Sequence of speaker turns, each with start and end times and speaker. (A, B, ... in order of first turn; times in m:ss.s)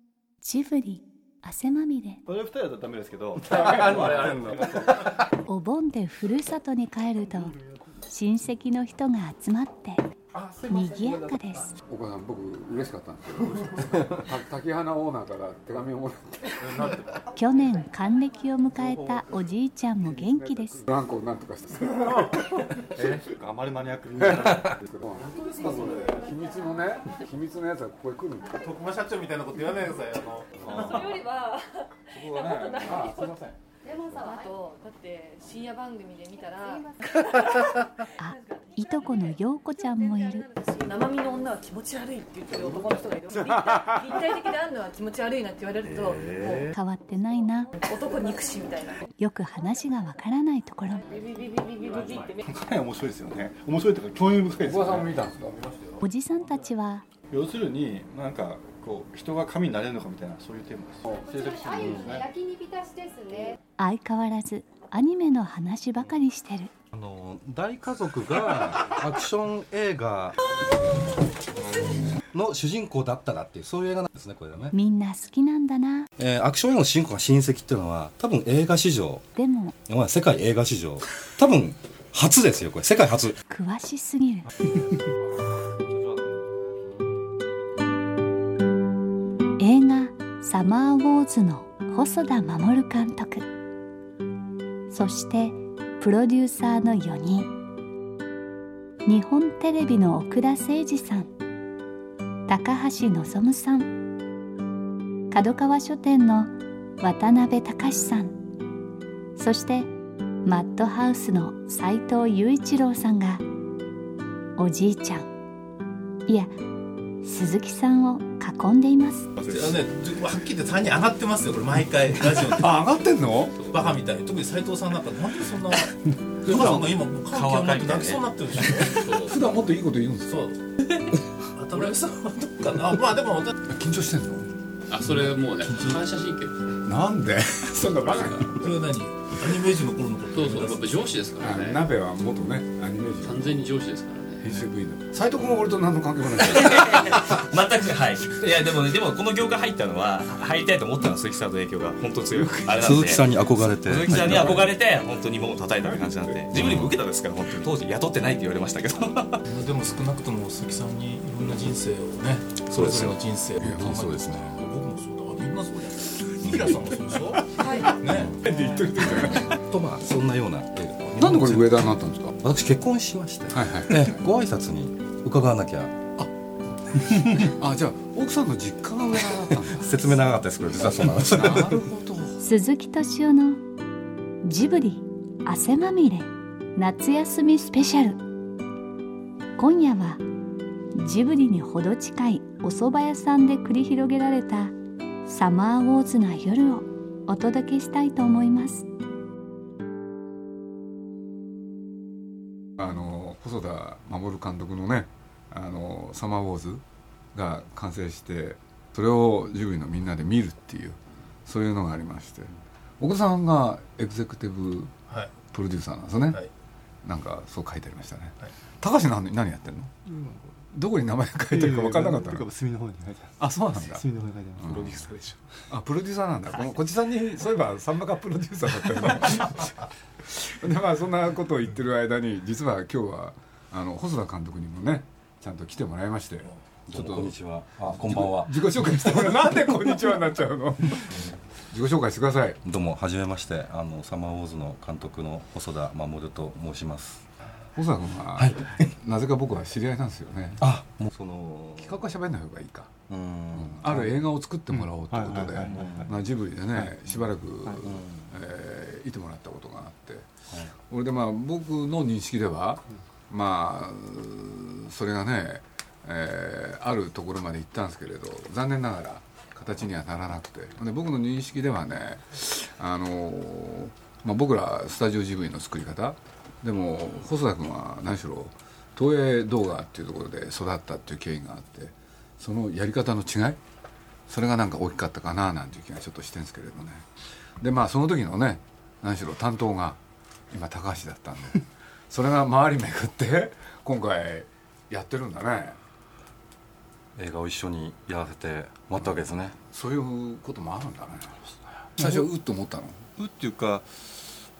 0:00.4-0:02.2 A
0:02.2-0:05.0 B
0:03.5-0:05.0 C
0:05.4-0:07.5 A
0:08.1-0:11.7 A
0:11.9-0:16.6 C
0:16.8-0:17.2 D
0:17.3-0:20.8 A
0:20.1-0:23.2 C
0:23.0-0:24.8 B
0:24.1-0:28.6 C
0:25.2-0:26.3 E
0:28.5-0:30.6 D
0:30.6-0:31.0 B
0:30.6-0:46.7 E
0:30.7-0:31.0 C
0:32.1-0:33.5 C
0:38.2-0:40.5 A
0:46.7-0:47.7 A
0:47.7-0:49.0 E
0:49.2-0:51.0 A
0:51.0-0:52.4 E
0:52.4-0:55.2 B
0:54.6-0:55.6 C
0:55.4-0:56.0 D
0:56.0-0:57.0 A
0:57.3-1:02.3 B
1:01.1-1:03.6 F
1:03.8-1:06.7 A
1:06.9-1:10.4 G
1:12.2-1:14.7 G
1:14.7-1:16.1 A
1:16.2-1:19.2 G
1:19.3-1:19.8 A
1:19.8-1:23.4 G
1:23.5-1:24.5 A
1:26.0-1:26.3 B
1:29.6-1:33.5 A
1:34.9-1:37.5 A
1:39.0-1:41.3 A
1:42.5-1:43.9 A
1:45.3-1:48.4 A
1:49.4-1:49.9 A
1:50.4-1:53.4 A
1:54.6-1:55.3 A
1:56.2-1:56.5 A
1:57.2-1:59.3 A
1:59.4-1:59.8 B
1:59.5-2:02.8 D
2:02.5-2:03.7 C
2:03.5-2:03.8 H
2:03.7-2:09.2 D
2:06.5-2:08.9 I
2:09.0-2:09.4 H
2:09.1-2:10.5 C
2:10.2-2:10.6 D
2:11.6-2:13.5 D
2:13.7-2:14.5 C
2:14.9-2:16.8 H
2:15.6-2:16.0 D
2:16.8-2:18.6 C
2:18.1-2:18.5 H
2:18.6-2:21.1 D
2:20.3-2:21.8 H
2:21.4-2:23.5 C
2:23.2-2:24.4 H
2:24.4-2:27.2 C
2:26.4-2:39.4 I
2:32.4-2:32.7 C
2:32.6-2:34.7 G
2:34.1-2:34.6 C
2:35.8-2:36.8 C
2:36.5-2:36.9 G
2:39.4-2:48.4 D
2:42.7-2:43.1 G
2:43.6-2:44.3 C
2:43.6-2:44.6 G
2:47.6-2:48.0 E
2:48.0-2:56.1 G
2:48.4-2:49.5 C
2:51.2-2:52.3 C
2:53.5-2:54.2 C
2:57.4-3:02.4 C
2:59.6-3:01.8 G
3:02.4-3:03.6 A
3:04.4-3:08.2 A
3:09.6-3:10.2 A
3:10.9-3:14.7 A
3:15.2-3:18.9 A
3:22.8-3:34.9 C
3:35.5-3:36.4 C
3:37.0-3:39.9 C
3:40.0-3:40.5 B
3:40.7-3:42.5 C
3:41.5-3:45.3 B
3:43.4-3:44.0 C
3:44.6-3:45.1 C
3:45.7-4:02.6 C
3:56.9-3:58.7 G
4:02.6-4:07.3 G
4:07.7-4:10.6 C
4:08.4-4:08.9 G
4:10.6-4:12.0 G
4:11.8-4:12.9 C
4:13.1-4:14.1 G
4:13.5-4:20.3 C
4:14.7-4:16.2 B
4:15.6-4:16.0 G
4:17.8-4:18.3 G
4:20.9-4:43.6 C
4:44.3-4:50.0 C
4:50.5-4:55.8 C
4:57.2-4:59.6 G
4:59.7-5:03.0 C
5:02.0-5:02.3 B
5:03.2-5:04.3 B